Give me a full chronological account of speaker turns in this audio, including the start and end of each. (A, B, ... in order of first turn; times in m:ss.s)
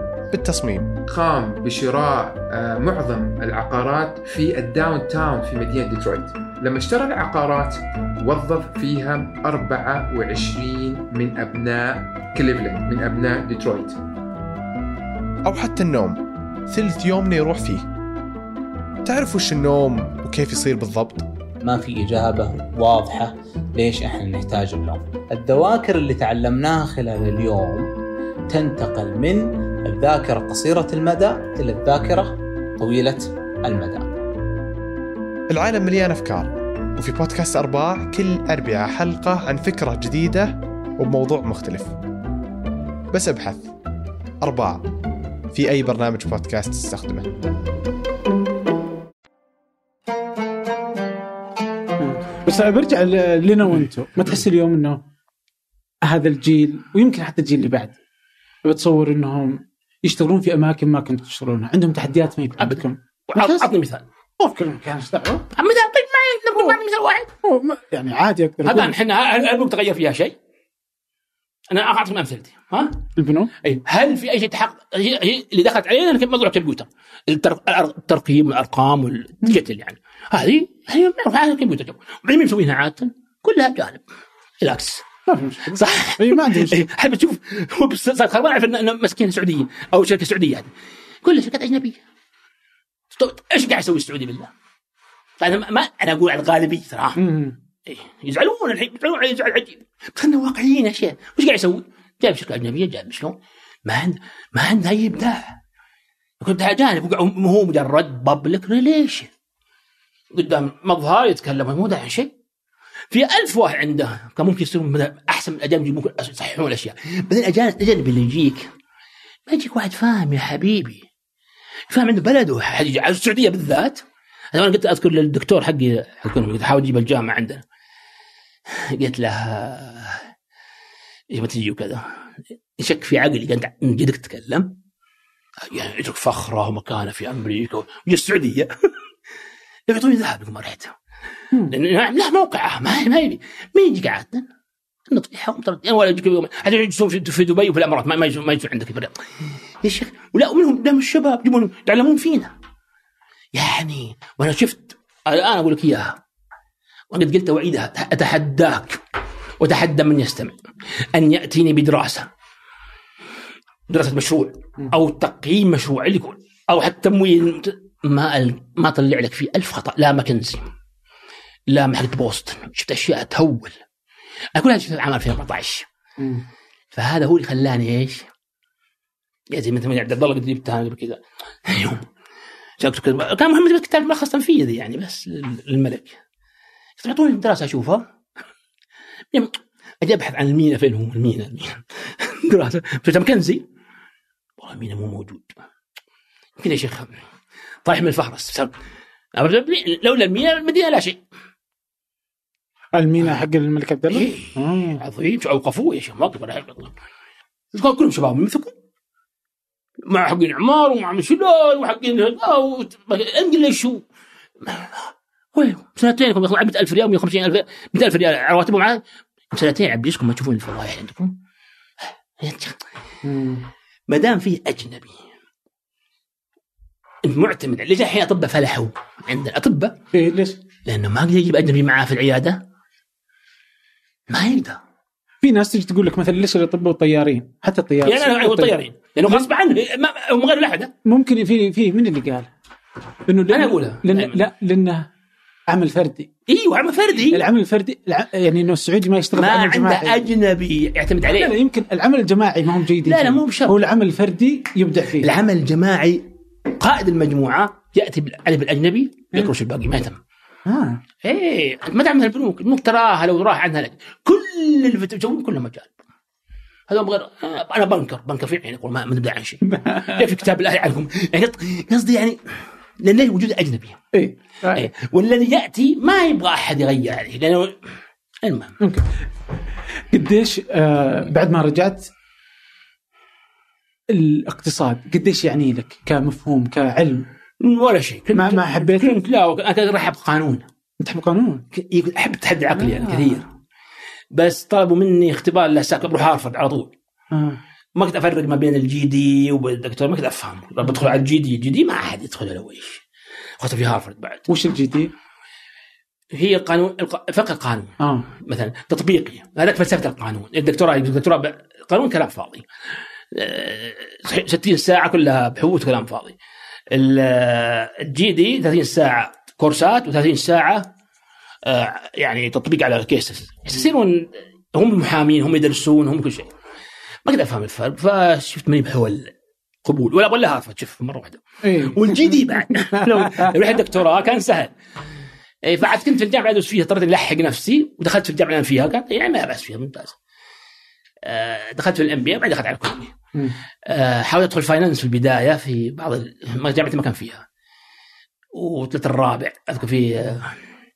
0:00.3-0:01.0 A
0:01.1-0:14.0 B
0:15.4-0:17.9 A
0:19.0-0:21.3 A
0:21.6-0:27.9 C
0:28.5-0:34.1 C
0:35.5-0:41.9 A
0:43.1-0:43.7 A
0:44.4-0:44.9 A
0:45.5-0:47.5 A
0:52.0-0:55.0 D
0:56.1-0:58.0 D
0:58.6-1:03.7 D
1:02.6-1:04.0 E
1:04.4-1:05.5 D
1:05.5-1:07.3 E
1:07.4-1:08.9 D
1:08.6-1:10.3 E
1:11.7-1:13.0 E
1:13.2-1:13.5 D
1:13.6-1:24.0 E
1:24.6-1:25.0 E
1:25.3-1:26.8 D
1:25.7-1:30.7 E
1:31.2-1:32.0 E
1:33.1-1:34.5 E
1:35.4-1:37.2 E
1:37.2-1:37.6 D
1:37.9-1:45.6 E
1:46.4-1:49.3 E
1:50.4-1:52.3 E
1:53.1-1:58.7 E
1:59.5-2:01.0 E
2:01.9-2:04.0 E
2:04.5-2:07.6 E
2:08.9-2:10.2 E
2:11.3-2:12.0 E
2:12.8-2:14.8 E
2:15.7-2:18.7 E
2:19.9-2:21.0 E
2:21.7-2:24.5 E
2:25.1-2:29.2 E
2:29.8-2:32.5 E
2:33.5-2:36.2 E
2:37.1-2:39.0 E
2:39.6-2:40.6 E
2:41.1-2:42.3 E
2:43.9-2:50.6 E
2:51.7-2:53.8 E
2:54.6-2:55.9 E
2:56.2-2:56.4 D
2:56.9-2:58.3 E
2:59.5-3:02.1 E
3:02.8-3:06.2 E
3:07.0-3:08.0 E
3:09.3-3:13.6 E
3:14.6-3:15.6 E
3:16.6-3:17.1 E
3:17.8-3:18.7 E
3:19.4-3:21.2 E
3:22.9-3:25.0 D
3:24.1-3:26.9 E
3:27.7-3:28.7 E
3:30.1-3:34.0 E
3:34.6-3:39.0 E
3:39.5-3:41.4 E
3:42.4-3:42.8 E
3:43.2-3:43.6 D
3:44.1-3:45.2 E
3:47.2-3:50.0 E
3:50.1-3:50.6 D
3:50.8-3:52.6 E
3:54.3-3:54.8 E
3:55.4-3:58.8 D
3:58.0-4:00.9 E
4:01.0-4:02.5 D
4:03.3-4:05.1 D
4:03.5-4:04.4 E
4:05.7-4:06.3 D
4:06.5-4:07.4 E
4:07.3-4:10.3 D
4:09.4-4:11.6 E
4:11.3-4:15.3 D
4:13.0-4:13.8 E
4:15.2-4:20.2 E
4:20.7-4:21.0 D
4:21.2-4:25.9 E
4:26.9-4:32.4 E
4:29.7-4:30.2 D
4:33.0-4:34.0 E
4:34.1-4:34.9 D
4:34.7-4:37.7 E
4:38.4-4:38.8 E
4:38.8-4:39.1 D
4:40.1-4:42.1 D
4:44.1-4:47.3 D
4:47.6-4:50.7 E
4:48.3-4:49.2 D
4:51.0-4:51.6 D
4:51.7-4:53.5 E
4:52.8-4:53.4 D
4:54.3-4:56.9 E
4:57.3-4:57.6 D
4:58.0-5:03.0 E
5:00.8-5:01.2 D
5:03.6-5:04.4 E
5:04.5-5:05.1 D
5:06.3-5:12.6 E
5:08.0-5:08.3 D
5:13.3-5:16.4 E
5:16.9-5:20.9 E
5:21.7-5:26.5 E
5:27.3-5:29.3 E
5:29.9-5:34.7 E
5:31.6-5:33.8 D
5:35.6-5:40.2 E
5:41.2-5:43.1 E
5:43.9-5:47.4 E
5:48.6-5:50.6 E